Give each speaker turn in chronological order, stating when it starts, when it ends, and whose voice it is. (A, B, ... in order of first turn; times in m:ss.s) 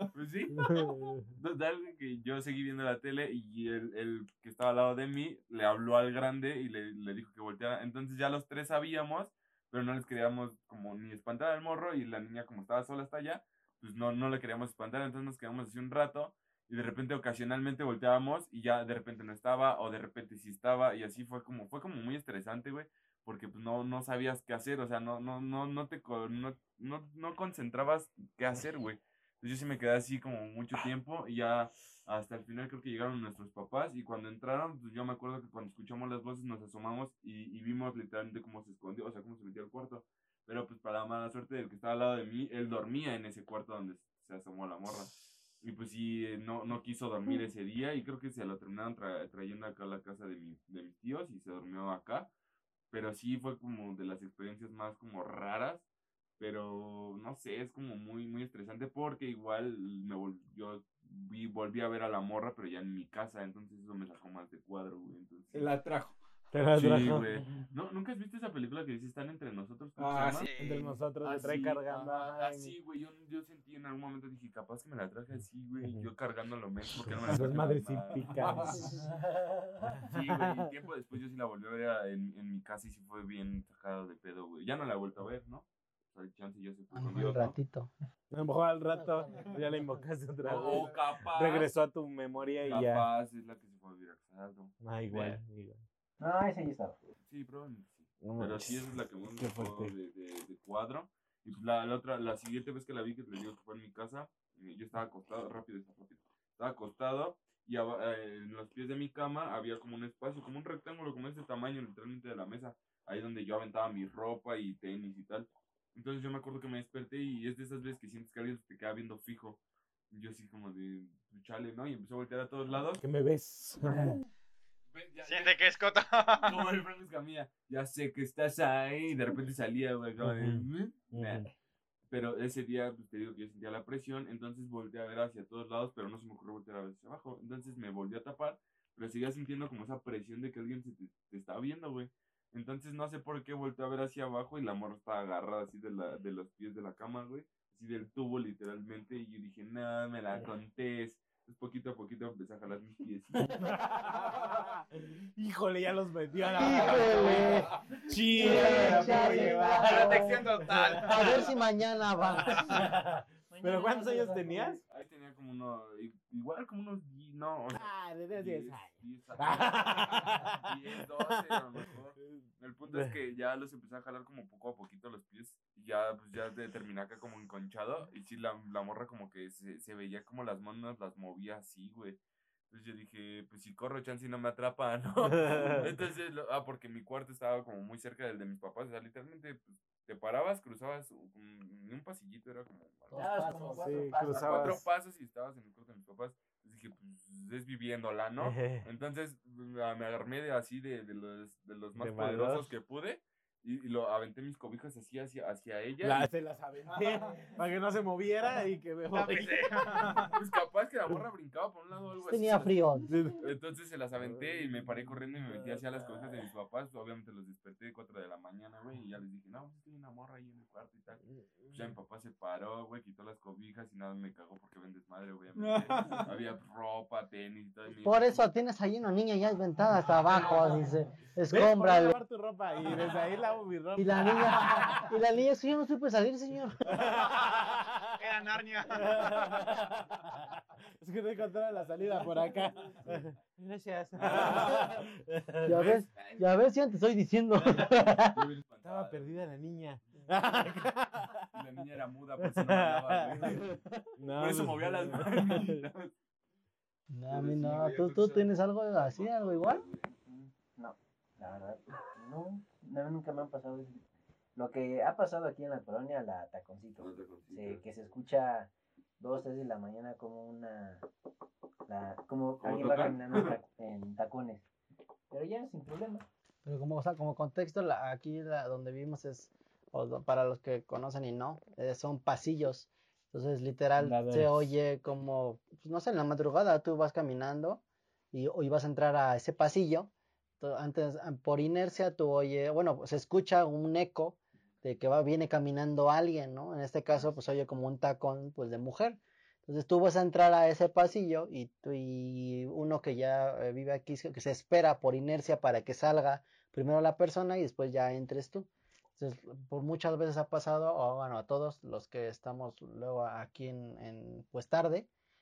0:00.1-0:52.3 A
0:00.5-0:01.3 B
0:52.9-0:55.8 A
0:56.4-1:05.7 A
1:05.5-1:06.2 C
1:06.5-1:07.2 B
1:06.7-1:10.5 A
1:07.2-1:07.6 C
1:10.0-1:10.5 C
1:10.1-1:10.9 D
1:10.6-1:12.8 B
1:11.2-1:18.8 A
1:15.8-1:16.1 B
1:16.9-1:18.9 B
1:18.4-1:19.0 C
1:19.8-1:20.7 B
1:20.0-1:27.6 A
1:26.9-1:27.9 E
1:28.3-1:33.1 B
1:28.9-1:29.8 E
1:30.4-1:31.7 A
1:30.5-1:30.9 C
1:32.6-1:35.4 A
1:34.8-1:35.8 B
1:36.2-1:37.1 F
1:37.2-1:59.6 A
1:38.2-1:39.9 B
2:00.1-2:03.0 A
2:03.0-2:04.2 B
2:04.9-2:05.6 A
2:05.2-2:06.6 D
2:06.4-2:11.4 A
2:10.2-2:11.5 B
2:12.1-2:34.1 A
2:33.4-2:41.0 B
2:36.5-2:37.7 E
2:36.8-2:37.6 D
2:36.9-2:37.5 C
2:38.3-2:40.4 E
2:38.4-2:41.5 C
2:39.7-2:41.5 D
2:41.1-2:42.9 E
2:42.4-2:42.9 F
2:42.4-2:44.8 B
2:43.5-2:44.8 F
2:44.9-3:02.2 A
2:47.7-2:51.6 B
2:52.2-2:53.1 B
3:02.7-3:13.5 A
3:05.2-3:05.9 B
3:13.1-3:14.1 E
3:13.1-3:14.8 F
3:13.7-3:14.8 B
3:14.2-3:26.3 A
3:18.4-3:18.8 B
3:22.0-3:22.7 B
3:26.0-3:30.2 B
3:26.9-3:27.5 C
3:29.1-3:30.3 D
3:30.3-3:48.5 A
3:32.2-3:33.1 E
3:33.1-3:33.4 B
3:34.2-3:36.4 B
3:41.3-3:41.9 B
3:45.6-3:46.3 C
3:47.9-3:52.2 E
3:51.5-3:55.1 B
3:54.0-3:56.8 E
3:57.0-3:58.0 B
3:58.2-3:59.7 D
3:58.9-4:06.0 B
4:02.9-4:03.2 A
4:04.2-4:04.9 A
4:04.4-4:04.7 E
4:05.6-4:08.5 E
4:05.8-4:06.5 A
4:07.6-4:09.5 A
4:08.8-4:11.4 B
4:11.5-4:13.8 A
4:12.4-4:15.8 B
4:14.4-4:16.1 A
4:17.1-4:19.8 E
4:17.3-4:20.1 A
4:20.1-4:24.0 F
4:24.6-4:31.0 F
4:27.0-4:27.8 A
4:31.9-4:34.6 F
4:32.6-4:33.6 A
4:35.3-4:36.2 F
4:36.6-4:47.8 E
4:44.0-4:44.7 B
4:48.3-5:15.1 E